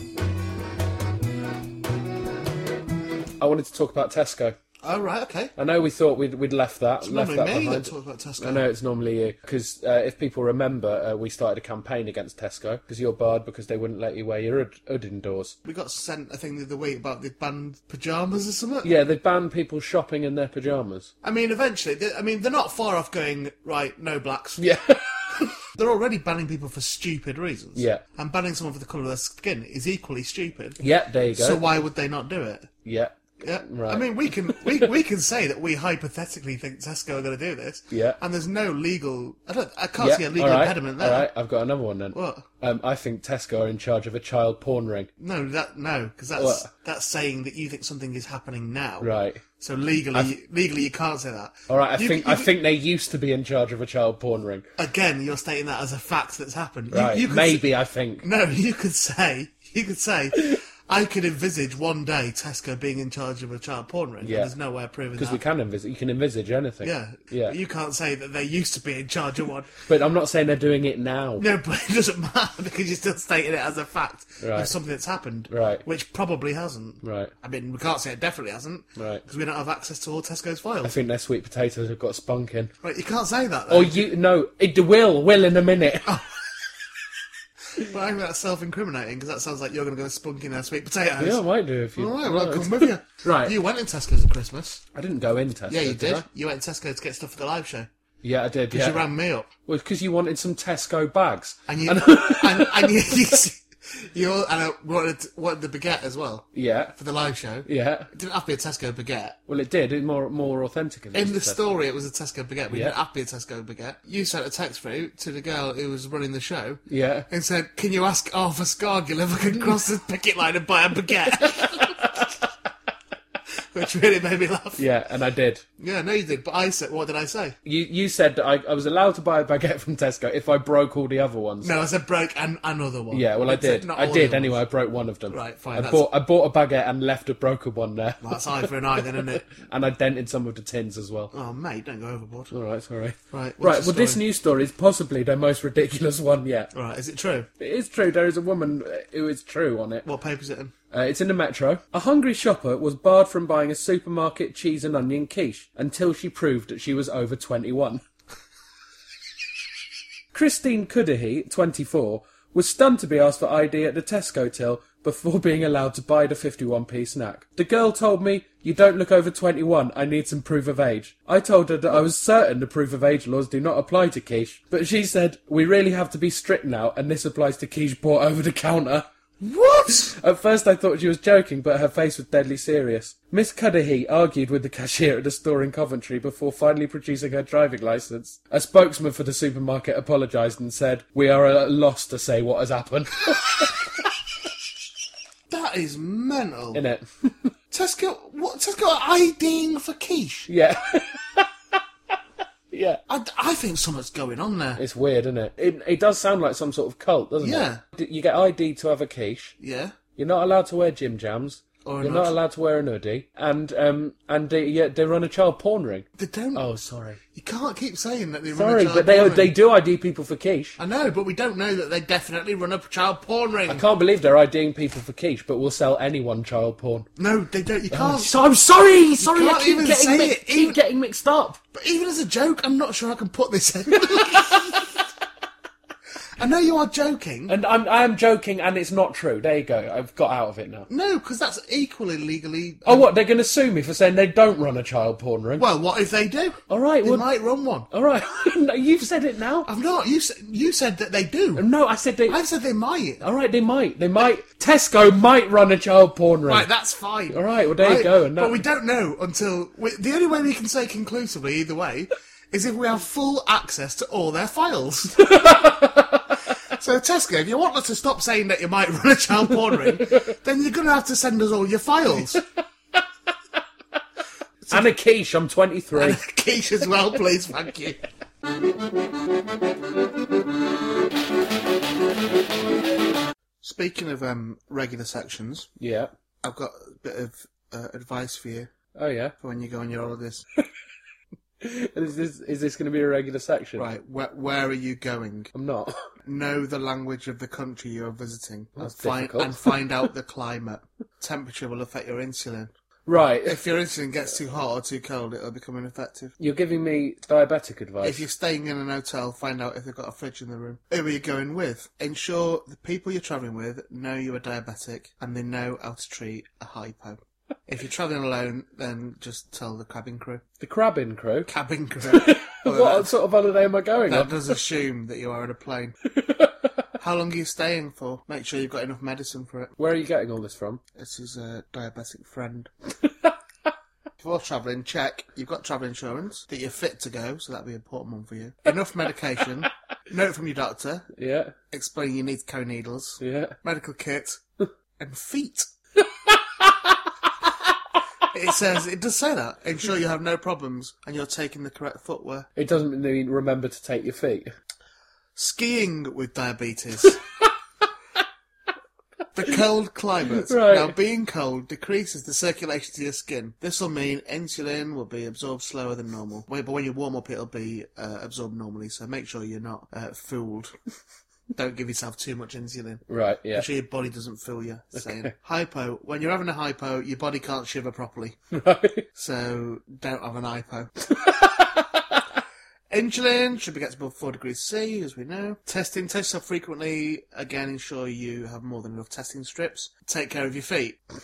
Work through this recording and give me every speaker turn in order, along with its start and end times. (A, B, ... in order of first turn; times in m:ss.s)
0:03.4-0:04.6 A
0:04.8-0:05.5 B
0:05.6-0:15.6 A
0:07.0-0:08.6 B
0:15.6-0:18.9 B
0:18.8-0:21.1 A
0:21.2-0:24.6 B
0:24.6-0:25.5 A
0:25.6-0:30.8 B
0:27.8-0:28.0 A
0:30.8-0:31.6 A
0:31.3-0:32.7 B
0:32.8-0:34.8 A
0:33.4-0:41.3 B
0:37.9-0:38.2 A
0:40.0-0:45.1 A
0:42.1-0:42.5 B
0:45.2-0:52.5 B
0:46.4-0:46.7 A
0:49.0-0:49.4 A
0:51.7-0:54.6 A
0:54.8-0:57.6 B
0:56.9-0:58.2 A
0:58.2-1:05.4 B
1:04.2-1:04.5 A
1:05.2-1:07.6 A
1:06.8-1:09.7 B
1:09.9-1:11.4 A
1:11.4-1:20.9 B
1:14.4-1:14.7 A
1:15.5-1:15.8 A
1:17.0-1:17.3 A
1:19.0-1:19.2 A
1:20.8-1:22.7 A
1:22.8-1:24.0 B
1:23.7-1:26.2 A
1:26.0-1:26.3 B
1:27.7-1:31.4 B
1:31.2-1:33.5 A
1:32.0-1:34.8 B
1:34.9-1:36.2 A
1:35.7-1:37.9 B
1:38.2-1:39.0 A
1:38.7-1:39.5 B
1:39.6-1:43.1 A
1:41.7-1:49.4 B
1:46.5-1:46.9 A
1:47.6-1:48.1 A
1:49.5-1:51.6 A
1:51.1-2:02.2 B
1:56.9-1:57.2 A
2:01.6-2:02.2 A
2:03.7-2:04.8 B
2:04.8-2:05.6 A
2:05.8-2:07.6 B
2:07.6-2:11.8 A
2:11.6-2:14.6 B
2:13.1-2:21.3 A
2:15.3-2:16.0 B
2:18.2-2:19.4 B
2:21.3-2:22.5 B
2:22.5-2:26.7 A
2:23.3-2:24.2 B
2:26.7-2:27.5 B
2:27.6-2:30.0 A
2:30.0-2:30.7 B
2:30.9-2:38.0 A
2:40.3-2:59.1 A
2:59.4-3:00.2 B
2:59.9-3:13.8 A
3:15.5-3:16.8 B
3:16.7-3:17.5 A
3:17.7-3:20.5 B
3:20.5-3:21.5 A
3:22.7-3:23.0 A
3:23.1-3:24.8 B
3:24.8-3:29.6 A
3:27.4-3:27.8 B
3:29.6-3:30.0 B
3:30.2-3:37.2 A
3:31.8-3:32.4 B
3:36.2-3:36.6 B
3:37.3-3:39.5 B
3:38.5-3:40.8 A
3:40.8-3:43.8 B
3:43.7-3:47.1 A
3:47.2-3:48.3 B
3:47.9-3:51.6 A
3:49.2-3:50.8 B
3:51.7-3:54.8 B
3:56.4-3:57.5 B
3:57.5-4:00.9 A
4:00.9-4:03.1 B
4:02.8-4:05.6 A
4:05.6-4:07.9 B
4:06.7-4:07.2 A
4:07.9-4:09.7 A
4:09.6-4:11.6 B
4:11.5-4:12.4 A
4:12.3-4:13.2 B
4:13.2-4:16.7 A
4:16.5-4:25.3 B
4:17.3-4:18.6 A
4:25.2-4:26.4 A
4:26.7-4:32.4 B
4:34.7-4:36.2 A
4:35.9-4:38.0 B
4:43.6-4:45.7 B
4:45.8-4:46.1 A
4:46.4-4:48.7 B
4:48.9-4:49.3 A
4:49.4-4:50.4 B
4:51.6-4:53.9 A
4:53.8-4:55.5 B
4:55.5-4:56.1 A
4:56.2-5:02.7 B
4:58.8-4:59.8 A
5:03.1-5:03.6 A
5:03.4-5:06.3 B
5:06.4-5:08.2 A
5:08.0-5:20.4 B
5:20.6-5:21.5 A
5:21.5-5:23.1 B
5:22.0-5:24.3 A
5:24.1-5:26.0 B
5:26.2-5:26.5 A
5:27.0-5:29.7 B
5:29.8-5:30.8 A
5:30.9-5:32.7 B
5:34.2-5:41.1 B
5:41.2-5:41.5 A
5:41.7-5:44.4 B
5:43.2-5:43.6 A
5:45.0-5:45.7 B
5:46.2-5:46.9 A
5:48.3-5:52.5 B
5:52.6-5:54.5 A
5:55.4-5:57.2 B
5:59.3-6:10.7 B
6:00.4-6:00.9 A
6:11.5-6:18.4 B
6:13.1-6:13.6 A
6:15.0-6:15.3 A
6:18.5-6:19.1 A
6:19.2-6:20.9 B
6:21.2-6:22.0 A
6:22.9-6:31.0 B